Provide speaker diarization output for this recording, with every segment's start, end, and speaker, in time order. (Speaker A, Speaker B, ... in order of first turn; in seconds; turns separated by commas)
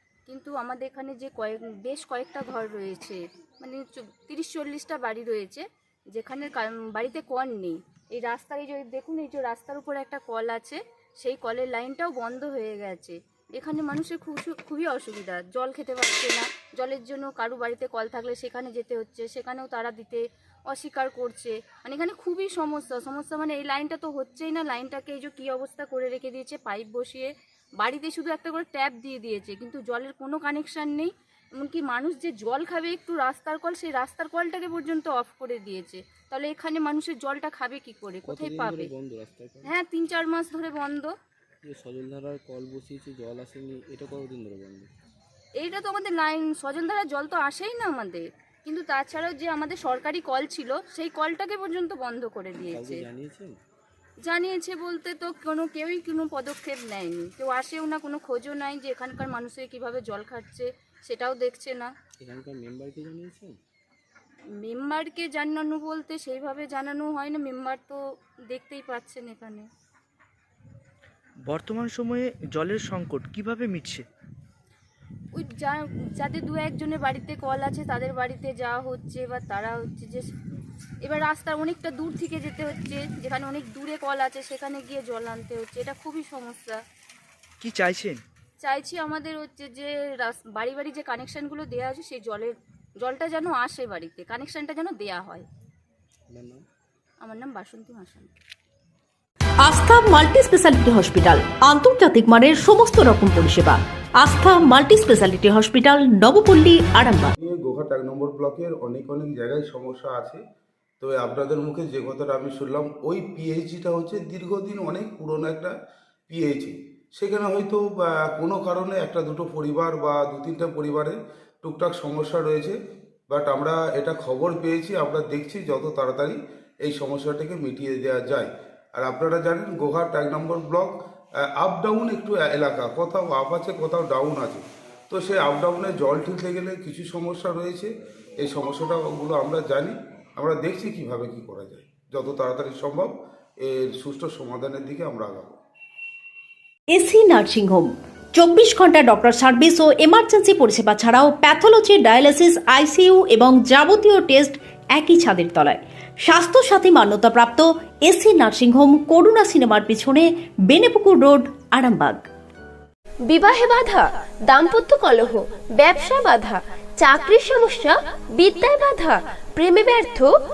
Speaker A: 0.3-38.9, Speaker B: 38.2-39.8, Speaker A: 39.6-41.1, Speaker B: 41.6-44.9, Speaker A: 45.6-53.1, Speaker B: 52.7-53.6, Speaker A: 54.3-61.9, Speaker B: 62.2-63.6, Speaker A: 64.6-69.7, Speaker C: 71.5-74.1, Speaker A: 75.4-80.3, Speaker A: 81.0-86.8, Speaker C: 87.6-88.2, Speaker A: 88.6-95.5, Speaker B: 96.3-96.7, Speaker A: 97.2-98.3, Speaker D: 99.6-107.3, Speaker E: 107.4-110.4, Speaker E: 111.0-115.7, Speaker E: 116.3-122.8, Speaker E: 123.3-145.6, Speaker D: 146.9-162.2, Speaker F: 163.3-170.3